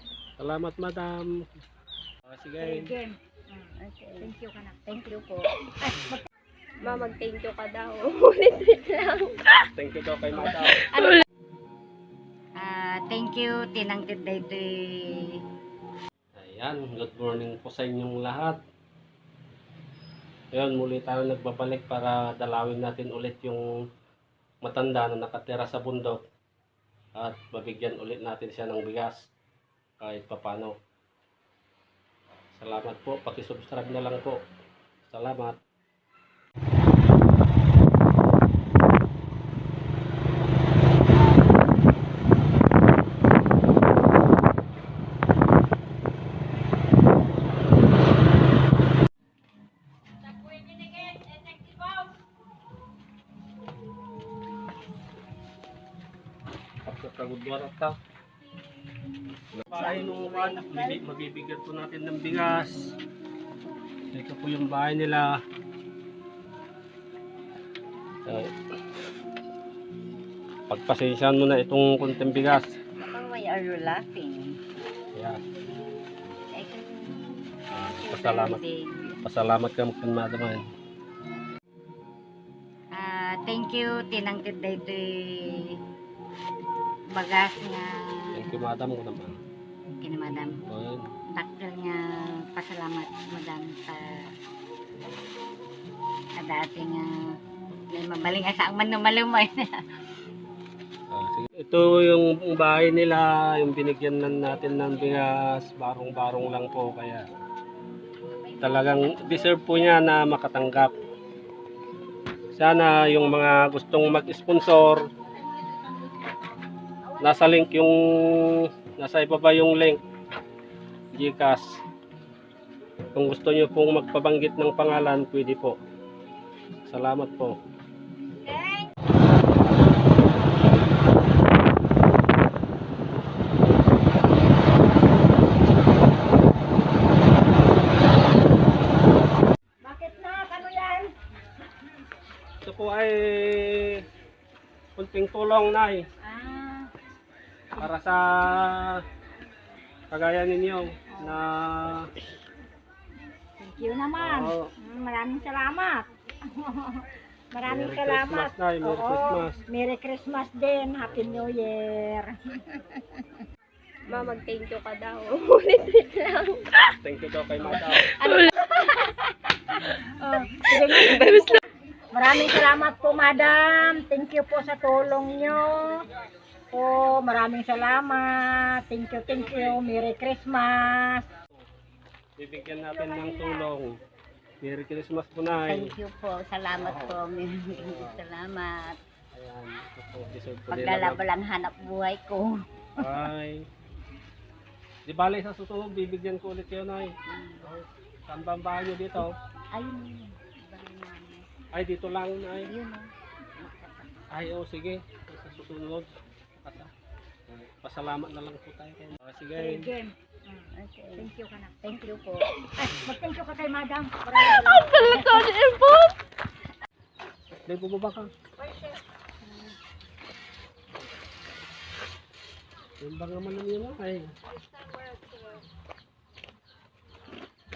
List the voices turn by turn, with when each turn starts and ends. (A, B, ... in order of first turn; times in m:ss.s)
0:00.4-0:01.5 A
0:02.6-0:02.8 A
0:02.6-0:05.1 B
0:03.8-0:04.3 C
0:04.9-0:05.5 C
0:05.8-0:06.3 B
0:06.8-0:09.6 D
0:09.8-0:10.8 A
0:10.6-0:11.2 D
0:12.6-0:15.4 C
0:16.4-0:18.6 A
0:20.5-0:23.6 A
0:24.6-0:26.2 A
0:27.2-0:29.2 A
0:30.0-0:30.7 A
0:32.6-0:34.4 A
0:35.1-0:35.6 A
0:56.8-0:58.0 A
0:59.5-1:02.9 A
0:59.7-1:01.0 C
1:04.1-1:05.4 A
1:10.7-1:12.7 A
1:13.0-1:14.6 C
1:15.2-1:15.4 A
1:16.5-1:19.2 C
1:17.7-1:18.6 A
1:19.2-1:20.6 A
1:22.9-1:25.8 C
1:27.2-1:28.4 C
1:28.4-1:29.4 A
1:30.0-1:30.6 C
1:30.7-1:31.1 A
1:31.3-1:32.0 C
1:32.5-1:34.2 C
1:36.4-1:37.1 C
1:37.9-1:39.8 C
1:41.1-1:47.2 A
1:48.6-1:50.9 A
1:52.6-1:55.0 A
1:57.2-2:00.0 A
2:01.1-2:01.6 A
2:03.2-2:05.8 A
2:06.9-2:07.6 A
2:19.8-2:21.1 B
2:22.6-2:24.0 A
2:25.0-2:26.0 A
2:26.2-2:26.9 B
2:27.8-2:29.0 A
2:30.1-2:32.1 A
2:31.1-2:31.4 B
2:33.6-2:42.6 B
2:34.2-2:34.7 A
2:37.7-2:39.6 A
2:41.0-2:41.6 A
2:44.1-2:46.9 D
2:47.0-2:48.2 A
2:48.1-2:48.5 D
2:50.1-2:51.6 B
2:52.1-2:56.0 B
2:56.7-3:01.3 B
2:59.4-2:59.8 A
3:02.4-3:04.0 A
3:02.9-3:03.7 B
3:04.6-3:05.9 A
3:05.7-3:09.0 C
3:06.8-3:07.2 A
3:07.7-3:08.2 A
3:09.3-3:11.3 A
3:10.7-3:12.6 C
3:13.0-3:13.6 A
3:15.1-3:19.3 A
3:17.3-3:17.7 C
3:19.7-3:21.5 C
3:21.7-3:22.7 A
3:22.7-3:24.1 C
3:24.3-3:26.9 A
3:27.5-3:29.9 A
3:29.6-3:35.5 B
3:30.8-3:31.3 C
3:34.4-3:36.1 D
3:37.7-3:38.3 A
3:43.0-3:44.3 A